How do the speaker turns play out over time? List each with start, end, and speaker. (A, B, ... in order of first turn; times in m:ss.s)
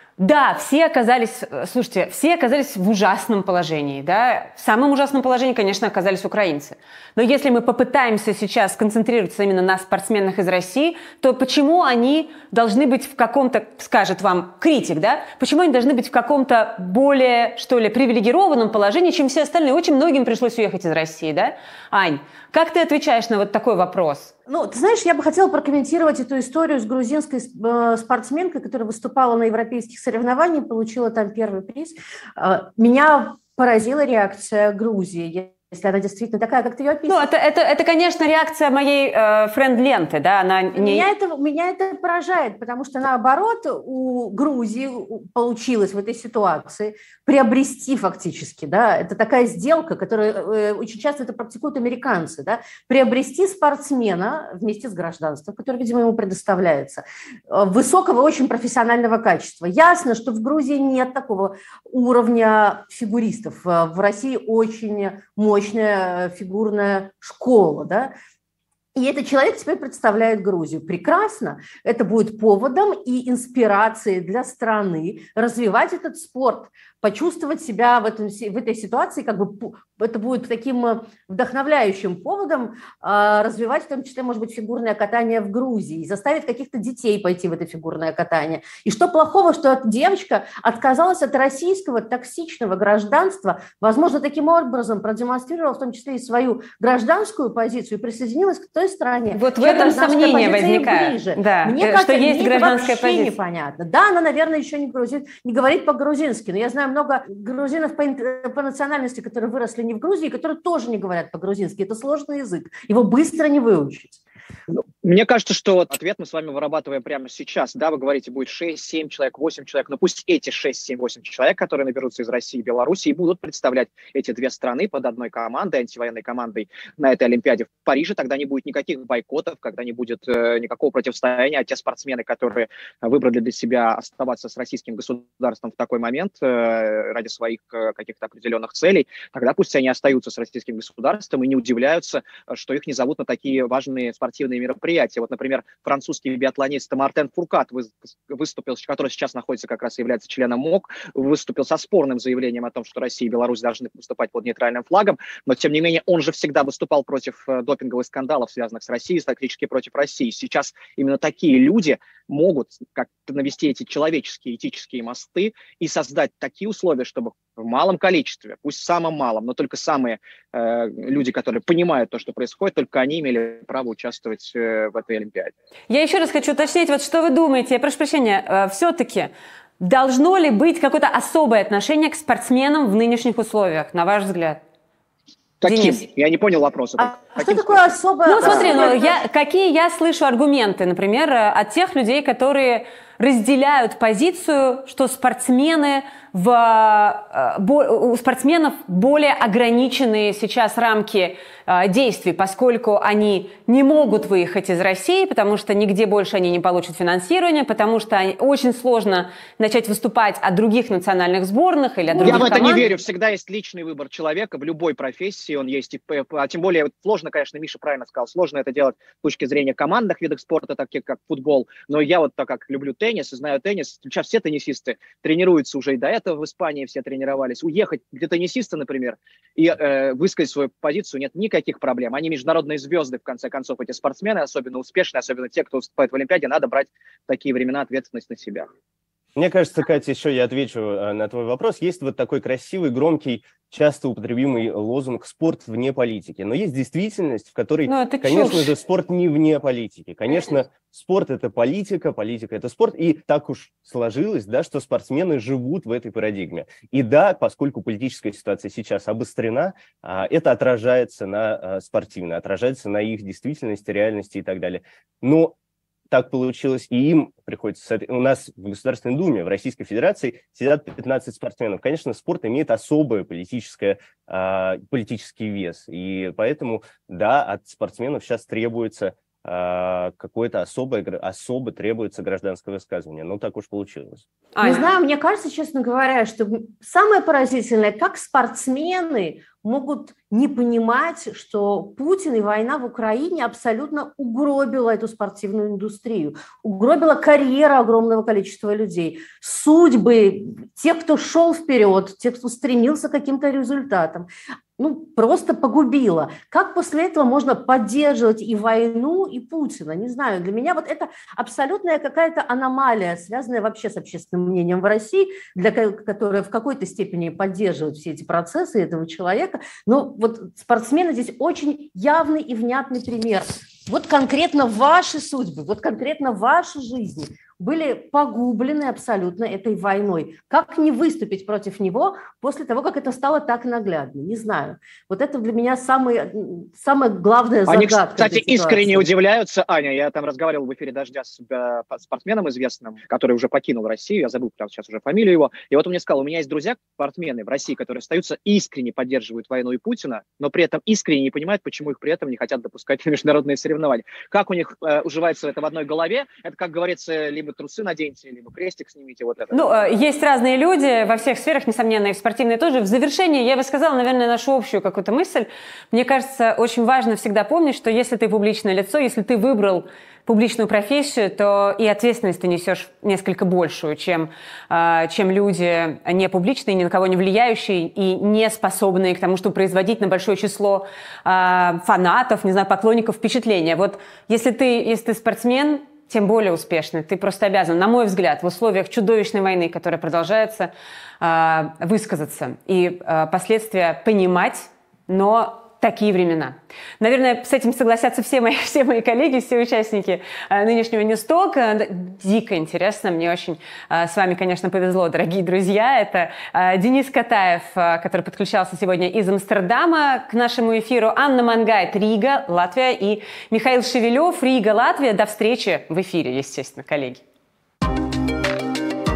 0:00.2-0:24.3 A
0:24.5-0:37.3 B
0:37.1-0:41.0 A
0:40.7-1:08.1 B
1:09.0-1:54.2 B
1:39.3-1:43.3 A
1:54.7-2:55.5 C
2:55.9-3:04.6 A
3:05.6-3:07.9 C
3:05.6-3:06.0 A
3:07.4-3:09.2 B
3:08.2-3:32.9 A
3:32.2-3:58.7 C
3:32.2-3:32.7 B
3:59.4-4:25.6 D
4:07.9-4:08.7 A
4:26.1-4:44.2 D
4:44.6-4:44.9 A
4:44.6-5:04.3 B
5:04.8-5:39.1 B
5:37.7-5:59.6 C
5:59.5-6:57.2 A